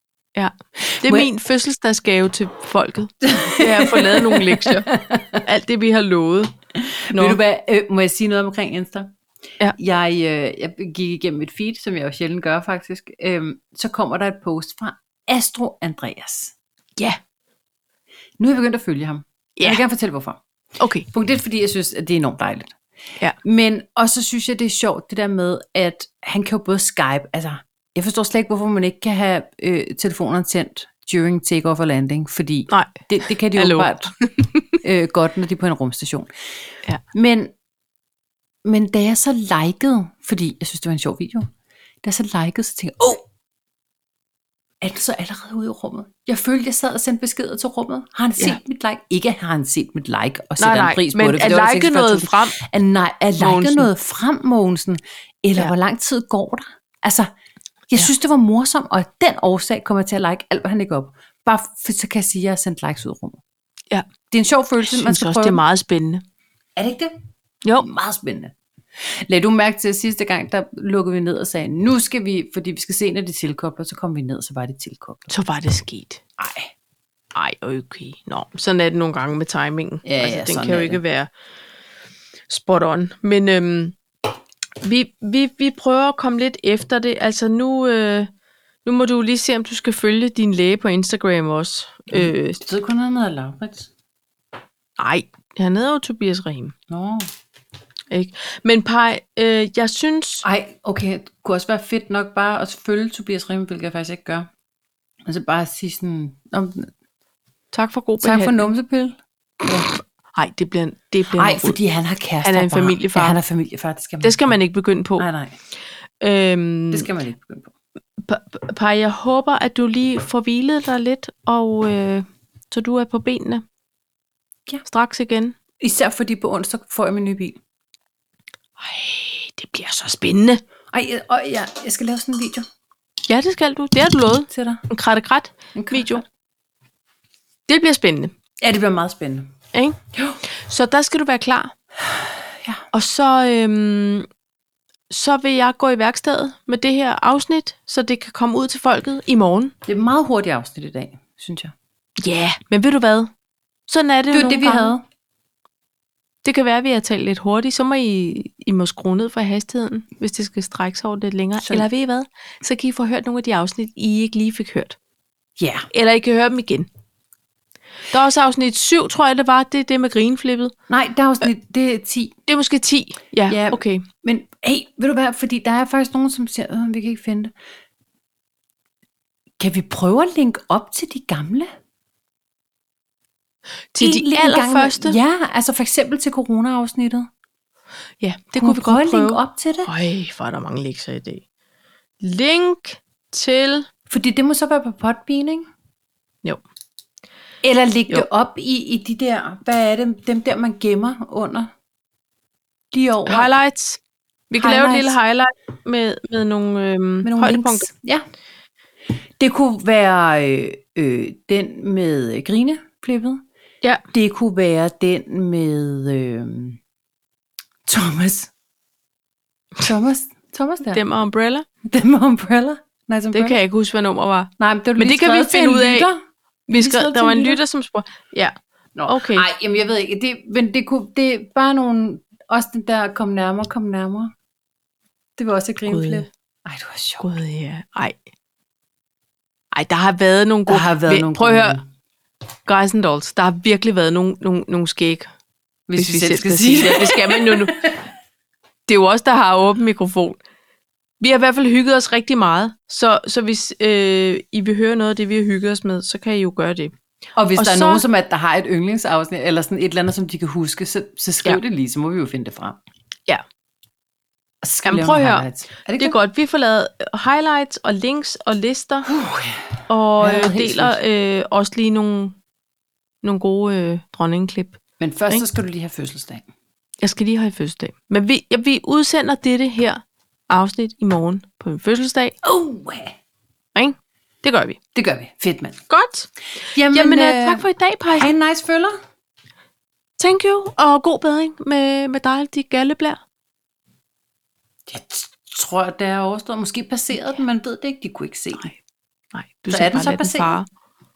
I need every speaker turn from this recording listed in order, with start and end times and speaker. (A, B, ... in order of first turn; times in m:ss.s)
0:00.4-0:04.9 A
0:00.9-0:01.3 B
0:03.2-0:05.4 B
0:05.4-0:06.5 A
0:06.8-0:09.1 B
0:07.1-0:07.4 A
0:09.8-0:16.5 B
0:18.4-0:20.4 B
0:19.6-0:19.8 A
0:20.8-0:21.1 A
0:21.1-0:22.7 B
0:23.4-0:34.1 B
0:32.7-0:34.8 A
0:34.8-0:36.3 B
0:37.1-0:37.5 B
0:38.6-0:41.5 B
0:42.0-0:43.2 B
0:44.8-0:57.3 B
0:50.6-0:52.6 A
0:53.4-0:53.9 A
0:57.9-1:03.4 B
1:04.3-1:05.6 B
1:04.8-1:06.2 A
1:06.8-1:07.1 B
1:07.8-1:08.5 B
1:09.1-1:15.3 B
1:15.3-1:16.2 A
1:16.4-1:16.7 B
1:17.3-1:21.3 A
1:20.0-1:21.0 B
1:22.5-1:24.0 A
1:24.8-1:28.3 A
1:28.8-1:32.6 A
1:32.1-1:33.9 B
1:35.0-1:36.7 A
1:36.9-1:37.2 B
1:38.1-1:40.4 A
1:40.4-1:44.5 B
1:45.2-1:46.9 B
1:47.7-1:48.7 A
1:48.2-1:49.9 B
1:50.3-1:51.8 A
1:51.4-1:54.6 B
1:52.4-1:53.4 A
1:54.2-1:55.2 A
1:55.2-1:55.5 B
1:56.2-1:57.1 A
1:56.9-1:57.7 B
1:58.2-2:03.6 A
2:04.8-2:05.6 A
2:05.8-2:07.6 B
2:08.8-2:10.6 A
2:10.9-2:12.7 B
2:13.3-2:16.2 A
2:14.5-2:14.8 B
2:15.7-2:16.2 B
2:17.7-2:18.3 A
2:18.6-2:19.5 B
2:20.1-2:20.4 B
2:20.5-2:21.7 A
2:22.0-2:22.8 B
2:22.9-2:24.3 A
2:25.1-2:29.7 A
2:29.8-2:31.7 B
2:32.2-2:33.3 A
2:33.9-2:34.9 A
2:34.3-2:35.0 B
2:36.4-2:45.0 A
2:41.6-2:41.8 B
2:45.6-2:45.9 B
2:45.9-2:46.9 A
2:48.1-2:50.7 A
2:50.9-2:52.4 B
2:52.5-2:54.0 A
2:53.5-2:57.5 B
2:59.6-3:01.7 B
3:03.9-3:05.2 A
3:04.0-3:07.3 B
3:08.2-3:11.4 A
3:08.6-3:09.9 B
3:12.2-3:13.9 A
3:14.1-3:15.7 B
3:17.6-3:21.7 B
3:22.9-3:23.5 B
3:23.2-3:24.0 A
3:24.5-3:27.9 A
3:24.6-3:25.2 B
3:27.2-3:28.2 B
3:29.4-3:33.4 B
3:34.1-3:36.8 B
3:37.8-3:38.5 B
3:39.8-3:41.0 B
3:40.9-3:41.6 A
3:41.8-3:43.6 B
3:43.3-3:46.1 A
3:44.6-3:46.2 B
3:46.7-3:48.5 A
3:46.7-3:47.6 B
3:49.0-3:54.3 B
3:49.1-3:49.4 A
3:55.4-3:57.2 B
3:55.9-3:56.3 A
3:57.2-3:58.2 A
3:59.7-4:01.8 A
4:00.7-4:01.8 B
4:02.6-4:05.3 A
4:05.9-4:08.0 B
4:06.0-4:07.9 A
4:08.9-4:10.4 A
4:11.2-4:16.9 A
4:17.4-4:22.8 B
4:17.6-4:18.0 A
4:24.6-4:26.2 B
4:24.8-4:25.5 A
4:26.0-4:29.1 A
4:29.1-4:31.0 B
4:29.9-4:32.4 A
4:33.2-4:34.8 A
4:35.0-4:36.4 B
4:37.0-4:42.4 A
4:42.4-4:43.2 B
4:43.7-4:44.8 A
4:44.9-4:45.8 B
4:45.9-4:46.3 A
4:46.7-4:48.9 B
4:46.9-4:48.3 A
4:50.2-4:53.2 A
4:54.9-4:58.7 B
4:59.3-5:00.7 A
4:59.7-5:00.6 B